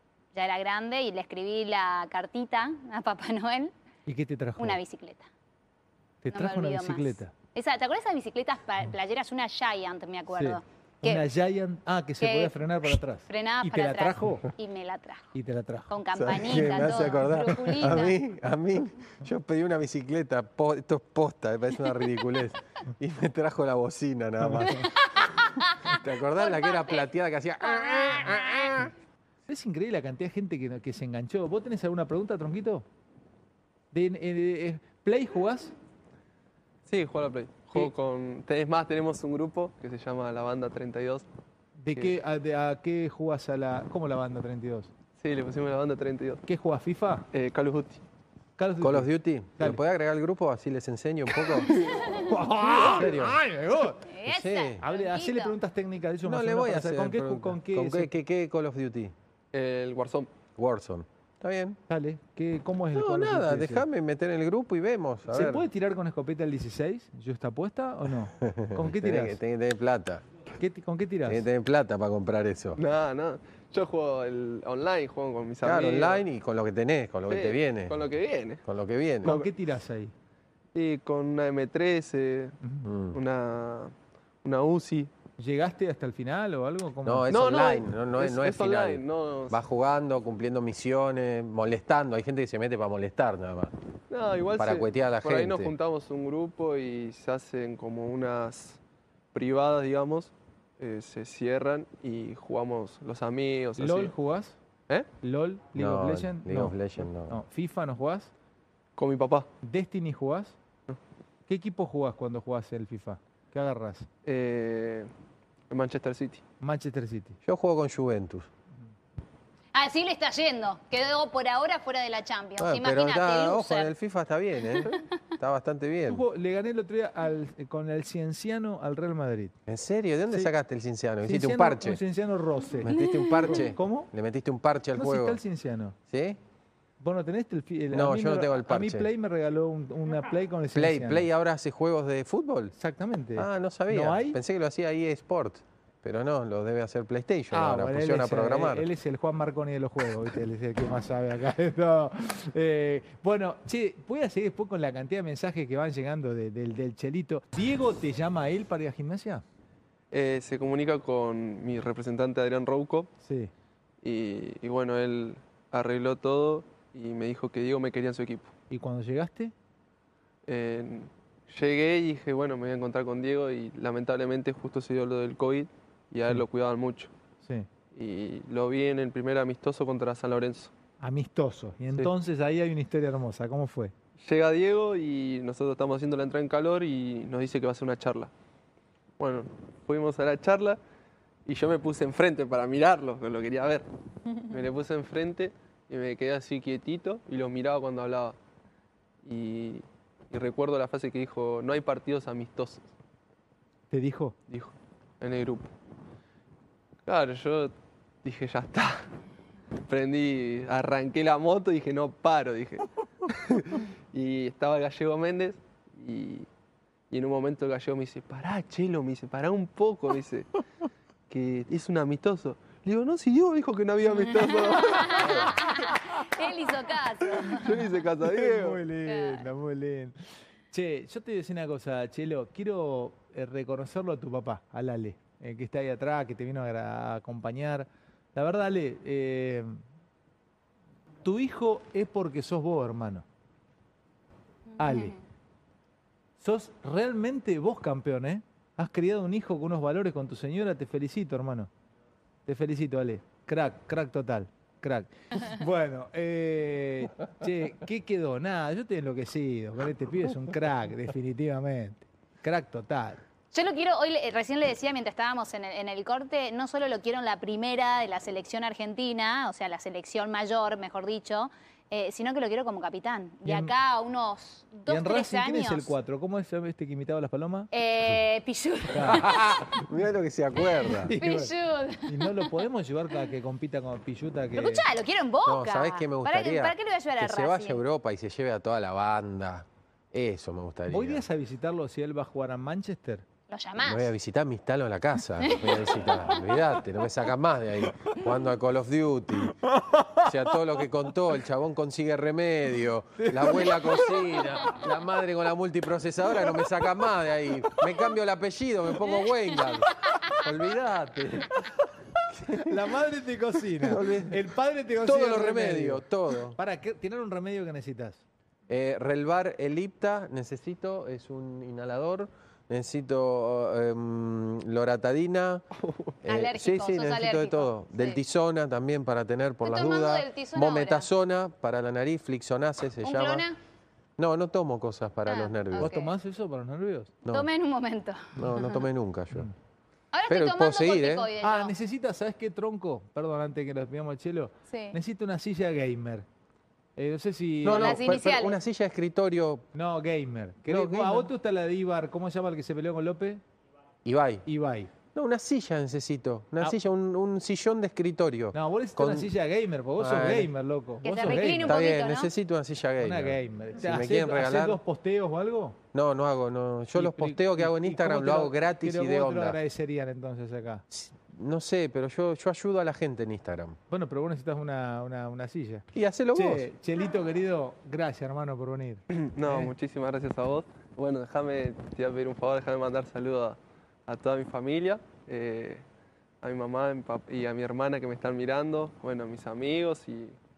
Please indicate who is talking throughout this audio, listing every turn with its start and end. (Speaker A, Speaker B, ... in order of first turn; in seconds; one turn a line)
Speaker A: 0.3-3.7
Speaker B: 4.1-4.8
Speaker A: 4.6-5.3
Speaker B: 6.2-7.3
Speaker A: 6.3-11.2
Speaker B: 10.3-14.5
Speaker A: 12.2-12.6
Speaker A: 13.3-15.3
Speaker B: 15.3-15.9
Speaker A: 15.9-18.2
Speaker C: 16.1-25.1
Speaker B: 24.4-24.9
Speaker A: 24.9-27.1
Speaker C: 25.6-28.9
Speaker B: 29.5-32.9
Speaker B: 33.9-35.8
Speaker D: 36.9-41.3
Speaker B: 41.8-44.9
Speaker D: 45.2-46.4
Speaker B: 46.5-47.3
Speaker D: 47.3-48.0
Speaker B: 48.6-49.8
Speaker C: 48.8-51.8
Speaker D: 51.8-52.1
Speaker B: 52.2-54.1
Speaker C: 52.9-53.4
Speaker A: 54.0-55.5
Speaker C: 54.2-54.8
Speaker B: 54.8-58.1
Speaker C: 56.2-59.1
Speaker D: 59.5-60.3
Speaker C: 60.6-61.8
Speaker B: 61.9-63.9
Speaker C: 62.9-65.7
Speaker B: 65.3-69.4
Speaker C: 68.4-70.2
Speaker B: 70.6-71.5
Speaker C: 71.3-72.8
Speaker D: 72.8-76.2
Speaker C: 75.6-78.0
Speaker D: 77.3-78.6
Speaker C: 78.7-79.4
Speaker B: 79.2-80.1
Speaker D: 80.8-82.6
Speaker C: 82.8-83.2
Speaker D: 83.1-83.9
Speaker D: 84.4-85.1
Speaker B: 85.4-87.4
Speaker C: 87.0-93.7
Speaker D: 87.3-89.6
Speaker D: 94.1-98.8
Speaker C: 94.6-95.7
Speaker D: 99.3-104.1
Speaker B: 103.8-104.6
Speaker B: 105.2-108.3
Speaker C: 105.8-107.4
Speaker D: 109.0-109.5
Speaker B: 109.6-110.6
Speaker B: 111.5-114.1
Speaker D: 114.2-115.1
Speaker D: 115.7-116.4
Speaker B: 116.6-117.4
Speaker C: 117.5-118.5
Speaker A: 119.7-123.9
Speaker C: 122.6-126.2
Speaker A: 124.7-125.0
Speaker B: 126.1-129.6
Speaker C: 129.7-132.0
Speaker B: 131.2-134.1
Speaker C: 132.8-135.4
Speaker A: 132.9-133.6
Speaker B: 134.9-136.0
Speaker C: 136.1-136.4
Speaker B: 137.0-141.3
Speaker C: 137.9-139.1
Speaker C: 140.7-142.7
Speaker B: 142.8-144.4
Speaker C: 143.4-148.9
Speaker B: 147.5-159.4
Speaker D: 160.1-163.1
Speaker B: 163.2-163.5
Speaker D: 164.0-168.5
Speaker B: 168.7-169.5
Speaker D: 170.5-177.1
Speaker D: 177.9-180.7
Speaker B: 181.0-183.9
Speaker D: 184.2-188.3
Speaker D: 189.2-190.8
Speaker D: 191.5-193.8
Speaker D: 194.4-198.4
Speaker D: 199.2-202.8
Speaker B: 203.9-204.4
Speaker D: 204.5-205.7
Speaker D: 207.1-207.7
Speaker D: 208.2-209.1
Speaker D: 209.9-216.5
Speaker D: 217.1-220.5
Speaker D: 221.3-225.8
Speaker A: 224.5-227.8
Speaker B: 225.6-226.1
Speaker D: 227.4-228.8
Speaker B: 228.2-230.2
Speaker A: 229.0-229.5
Speaker B: 230.7-239.8
Speaker B: 241.2-243.2
Speaker B: 244.8-245.2
Speaker A: 244.8-245.2
Speaker B: 246.4-251.7
Speaker B: 252.5-263.2
Speaker A: 263.5-275.9
Speaker B: 273.5-273.7
Speaker B: 274.9-277.7
Speaker A: 277.7-279.6
Speaker B: 278.9-279.3
Speaker C: 279.0-281.1
Speaker B: 281.0-284.9
Speaker A: 281.2-282.5
Speaker A: 284.6-287.8
Speaker C: 285.4-291.2
Speaker B: 290.9-293.3
Speaker A: 293.5-294.1
Speaker C: 293.8-299.6
Speaker A: 295.4-296.8
Speaker B: 299.6-300.6
Speaker C: 300.2-311.7
Speaker B: 303.2-304.4
Speaker C: 312.3-312.8
Speaker B: 312.4-318.2
Speaker C: 313.8-316.6
Speaker C: 318.7-325.6
Speaker D: 325.8-326.1
Speaker C: 326.2-333.5
Speaker A: 326.3-328.2
Speaker A: 329.6-331.1
Speaker A: 333.0-333.6
Speaker C: 334.2-335.9
Speaker A: 335.3-336.1
Speaker B: 335.8-337.2
Speaker A: 337.3-338.9
Speaker C: 338.4-339.5
Speaker A: 340.1-341.7
Speaker C: 340.3-341.3
Speaker B: 341.4-346.3
Speaker A: 344.7-345.0
Speaker B: 347.0-348.1
Speaker A: 347.6-348.6
Speaker C: 347.6-349.7
Speaker B: 349.7-353.4
Speaker C: 350.7-351.3
Speaker C: 354.1-354.5
Speaker B: 354.5-354.9
Speaker C: 355.1-359.3
Speaker B: 358.5-361.8
Speaker C: 360.0-360.5
Speaker A: 361.0-362.3
Speaker C: 361.5-364.8
Speaker B: 363.0-365.8
Speaker C: 365.9-369.6
Speaker B: 366.9-370.9
Speaker C: 370.9-373.8
Speaker B: 373.9-379.7
Speaker C: 375.9-376.6
Speaker D: 379.1-385.8
Speaker D: 386.4-390.4